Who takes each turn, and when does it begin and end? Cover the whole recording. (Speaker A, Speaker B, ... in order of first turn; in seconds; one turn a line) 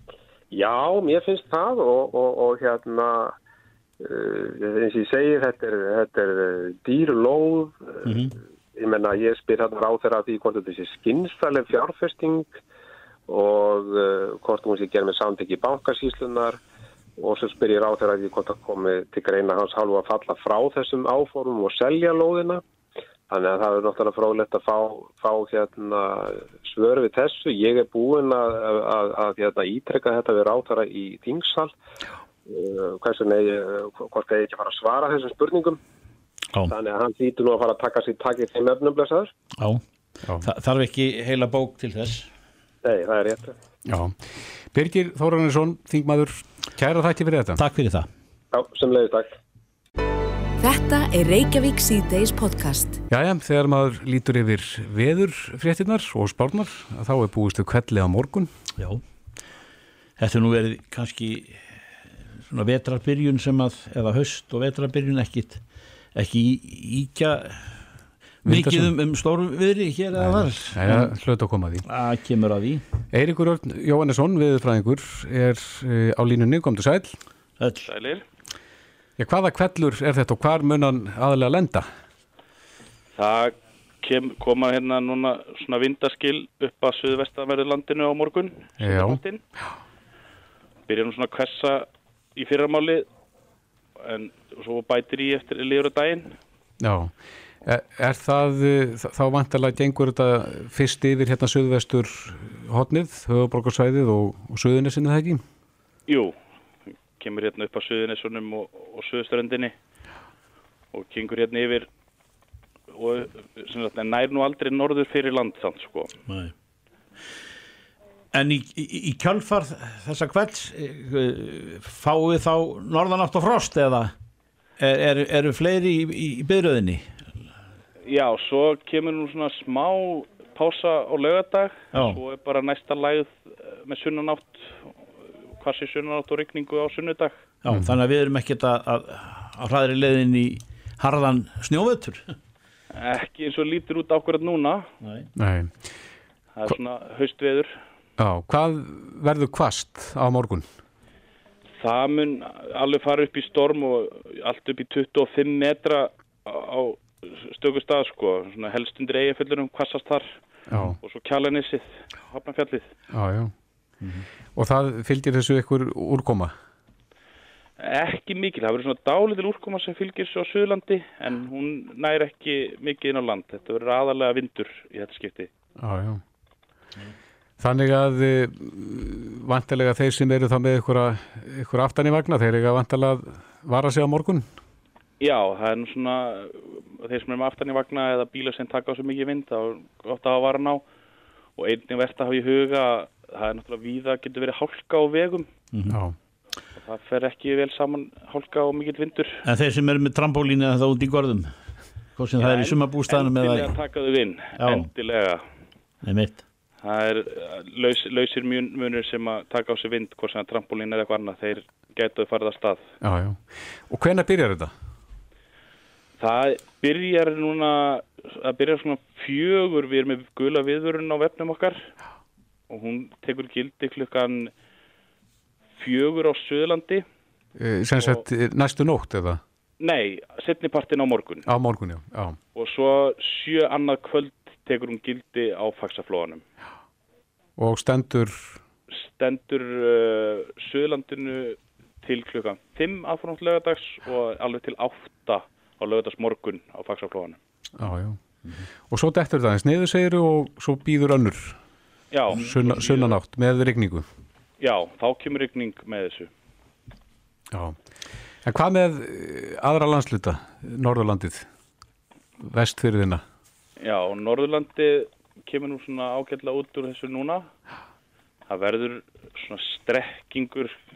Speaker A: 0.5-3.4
Speaker A: 4.0-8.1
Speaker B: 8.1-8.3
Speaker A: 8.8-12.6
Speaker A: 13.3-16.6
Speaker A: 17.2-22.6
Speaker A: 23.3-31.8
Speaker A: 32.5-35.8
Speaker A: 36.7-39.3
Speaker B: 40.4-42.3
Speaker A: 42.8-43.5
Speaker C: 43.9-47.6
Speaker B: 47.6-48.1
Speaker A: 48.5-49.4
Speaker D: 50.6-53.0
Speaker C: 53.1-58.5
Speaker B: 60.2-61.6
Speaker B: 62.5-65.6
Speaker B: 66.2-67.8
Speaker B: 68.4-71.1
Speaker C: 68.5-68.9
Speaker C: 70.2-71.8
Speaker B: 71.9-72.8
Speaker C: 73.1-77.2
Speaker B: 77.6-77.9
Speaker E: 77.9-78.2
Speaker C: 79.2-81.9
Speaker E: 83.2-89.4
Speaker C: 88.8-89.2
Speaker E: 90.9-93.1
Speaker E: 94.0-96.3
Speaker C: 96.8-105.4
Speaker E: 106.1-106.4
Speaker E: 107.2-109.7
Speaker E: 110.9-111.9
Speaker E: 112.9-116.2
Speaker B: 116.3-116.5
Speaker B: 118.3-124.1
Speaker B: 124.8-127.1
Speaker E: 128.1-134.9
Speaker B: 131.9-132.2
Speaker E: 135.6-137.4
Speaker B: 137.6-142.3
Speaker E: 142.9-144.9
Speaker B: 145.0-145.3
Speaker C: 145.4-145.7
Speaker E: 146.6-147.7
Speaker C: 148.2-150.7
Speaker E: 151.8-160.3
Speaker C: 160.7-161.0
Speaker E: 161.0-162.9
Speaker C: 163.1-163.5
Speaker C: 164.6-166.5
Speaker E: 167.8-175.5
Speaker C: 175.8-176.2
Speaker C: 177.6-184.5
Speaker E: 185.2-190.8
Speaker E: 191.6-195.5
Speaker B: 195.7-196.0
Speaker C: 195.9-196.2
Speaker E: 196.8-199.4
Speaker B: 199.4-201.5
Speaker B: 202.2-203.7
Speaker E: 202.4-205.4
Speaker B: 204.6-204.9
Speaker B: 206.0-206.4
Speaker E: 206.8-212.9
Speaker C: 213.0-214.7
Speaker E: 216.2-221.9
Speaker E: 222.7-224.5
Speaker E: 225.8-227.1
Speaker C: 227.6-229.4
Speaker E: 229.8-231.5
Speaker C: 231.5-232.4
Speaker E: 232.6-236.4
Speaker C: 237.6-238.6
Speaker E: 238.9-247.4
Speaker C: 247.8-248.2
Speaker C: 248.9-251.6
Speaker E: 252.1-253.2
Speaker C: 252.3-254.1
Speaker E: 254.6-256.3
Speaker C: 257.5-257.8
Speaker C: 258.4-261.5
Speaker C: 262.4-263.2
Speaker E: 263.8-267.5
Speaker E: 268.5-270.8